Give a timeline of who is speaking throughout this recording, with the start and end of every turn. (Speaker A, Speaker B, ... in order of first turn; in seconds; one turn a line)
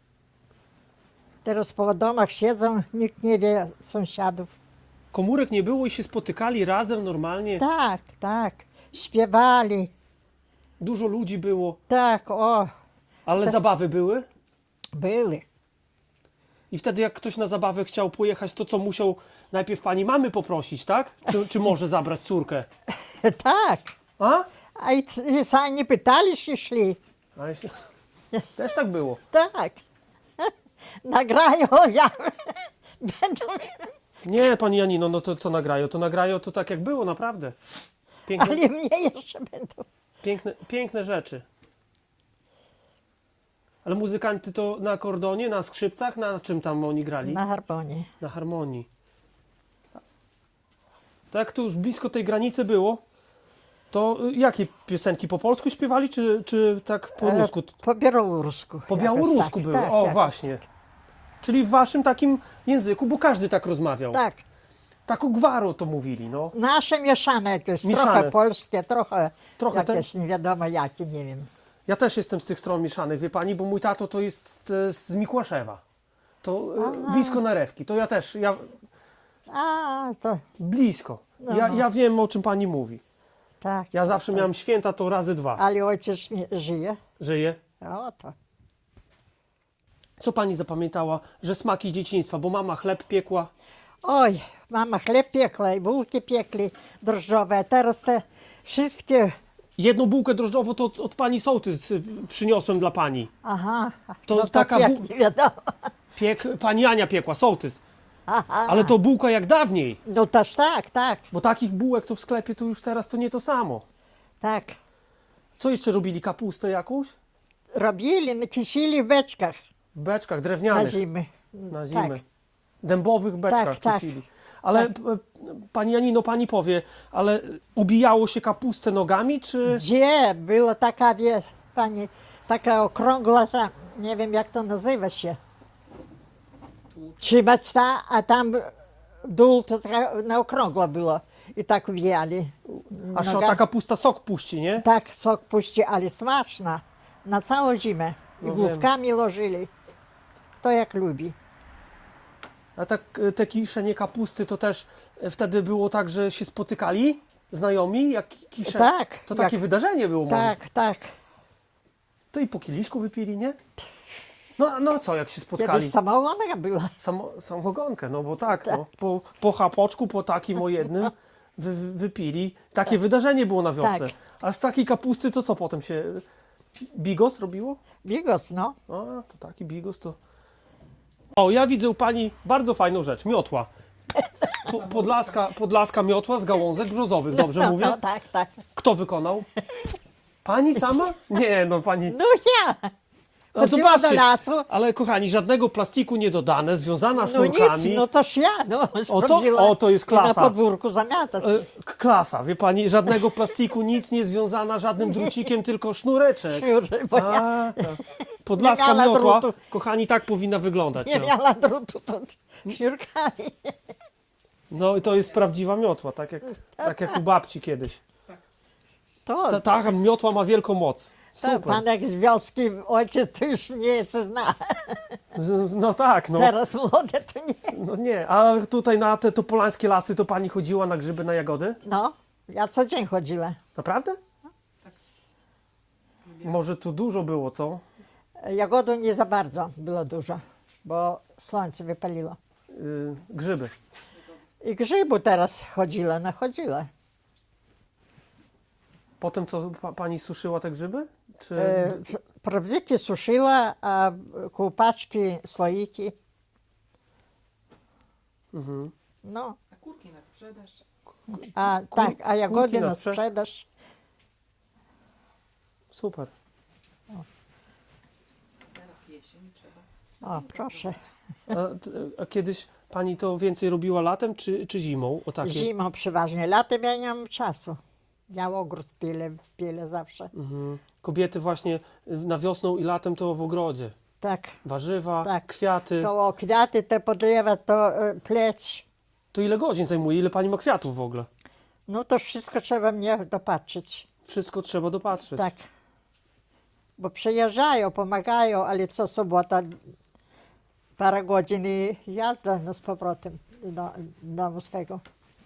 Speaker A: 1.4-4.5
Speaker B: 5.1-7.6
Speaker A: 7.6-9.9
Speaker B: 10.8-11.8
Speaker A: 11.9-12.7
Speaker B: 13.2-14.2
Speaker A: 14.9-15.4
Speaker B: 16.7-22.7
Speaker A: 23.0-23.9
Speaker B: 24.2-24.4
Speaker A: 24.8-27.0
Speaker B: 27.4-27.7
Speaker B: 28.5-29.2
Speaker A: 29.3-29.8
Speaker A: 31.0-33.9
Speaker B: 34.2-37.5
Speaker B: 38.2-38.6
Speaker A: 38.4-39.9
Speaker B: 40.2-41.4
Speaker B: 43.8-47.4
Speaker A: 47.2-48.1
Speaker B: 48.2-48.9
Speaker B: 51.3-53.0
Speaker B: 53.9-57.7
Speaker A: 57.2-60.4
Speaker B: 58.9-60.6
Speaker B: 61.4-64.2
Speaker A: 64.1-64.4
Speaker B: 65.1-66.5
Speaker A: 66.5-71.5
Speaker B: 67.8-68.3
Speaker B: 69.6-70.0
Speaker B: 71.9-75.8
Speaker B: 76.4-78.7
Speaker A: 76.8-77.4
Speaker A: 79.5-80.5
Speaker B: 80.6-83.0
Speaker A: 81.4-81.8
Speaker A: 83.6-84.5
Speaker B: 83.9-85.6
Speaker A: 85.6-87.0
Speaker B: 87.2-87.6
Speaker A: 87.8-88.3
Speaker B: 90.2-93.5
Speaker A: 94.0-99.3
Speaker B: 99.8-103.3
Speaker A: 103.4-105.9
Speaker B: 104.3-105.0
Speaker B: 106.2-107.8
Speaker A: 108.3-108.9
Speaker B: 108.7-110.0
Speaker A: 110.0-111.2
Speaker B: 111.3-113.8
Speaker A: 114.4-114.8
Speaker B: 115.6-117.1
Speaker A: 117.7-119.5
Speaker B: 119.9-121.0
Speaker A: 120.7-122.2
Speaker B: 121.7-122.2
Speaker B: 122.8-129.8
Speaker A: 123.5-124.1
Speaker A: 129.7-135.4
Speaker A: 137.2-143.6
Speaker B: 143.1-144.8
Speaker A: 144.8-149.7
Speaker B: 148.4-148.9
Speaker A: 150.6-151.3
Speaker B: 152.8-160.5
Speaker A: 158.7-159.6
Speaker A: 160.3-161.1
Speaker B: 162.3-163.6
Speaker B: 164.6-165.9
Speaker A: 165.6-167.0
Speaker B: 167.0-176.2
Speaker A: 173.8-174.1
Speaker B: 176.9-177.8
Speaker A: 178.0-178.8
Speaker B: 178.9-180.2
Speaker B: 181.3-183.7
Speaker A: 184.2-184.7
Speaker B: 184.6-188.0
Speaker A: 187.3-188.6
Speaker B: 188.7-189.4
Speaker A: 189.6-189.9
Speaker B: 190.4-192.2
Speaker A: 192.1-192.9
Speaker A: 193.5-194.7
Speaker B: 193.6-198.0
Speaker A: 197.2-201.7
Speaker B: 199.1-200.5
Speaker B: 201.4-211.3
Speaker A: 205.0-205.4
Speaker A: 206.5-209.5
Speaker A: 211.0-213.8
Speaker B: 214.7-218.0
Speaker A: 216.8-217.2
Speaker A: 219.2-219.8
Speaker B: 219.5-221.8
Speaker A: 221.4-225.2
Speaker B: 225.3-226.5
Speaker A: 226.4-227.8
Speaker B: 227.7-231.8
Speaker A: 231.8-233.6
Speaker B: 233.8-234.2
Speaker B: 236.4-237.8
Speaker A: 238.4-242.4
Speaker B: 242.7-243.7
Speaker A: 244.6-246.9
Speaker B: 249.2-252.0
Speaker A: 251.6-256.1
Speaker B: 258.5-258.9
Speaker A: 259.2-259.6
Speaker C: 259.8-260.8
Speaker A: 261.3-263.6
Speaker B: 261.5-263.2
Speaker B: 265.9-266.3
Speaker C: 268.8-269.8
Speaker A: 270.2-271.0
Speaker B: 271.5-275.7
Speaker A: 275.4-280.3
Speaker B: 280.3-283.9
Speaker A: 284.2-284.6
Speaker B: 284.6-286.1
Speaker A: 285.2-285.5
Speaker A: 286.0-288.8
Speaker B: 289.3-291.3
Speaker A: 291.9-294.1
Speaker B: 294.2-295.4
Speaker A: 295.4-295.6
Speaker A: 297.0-299.7
Speaker A: 301.0-305.0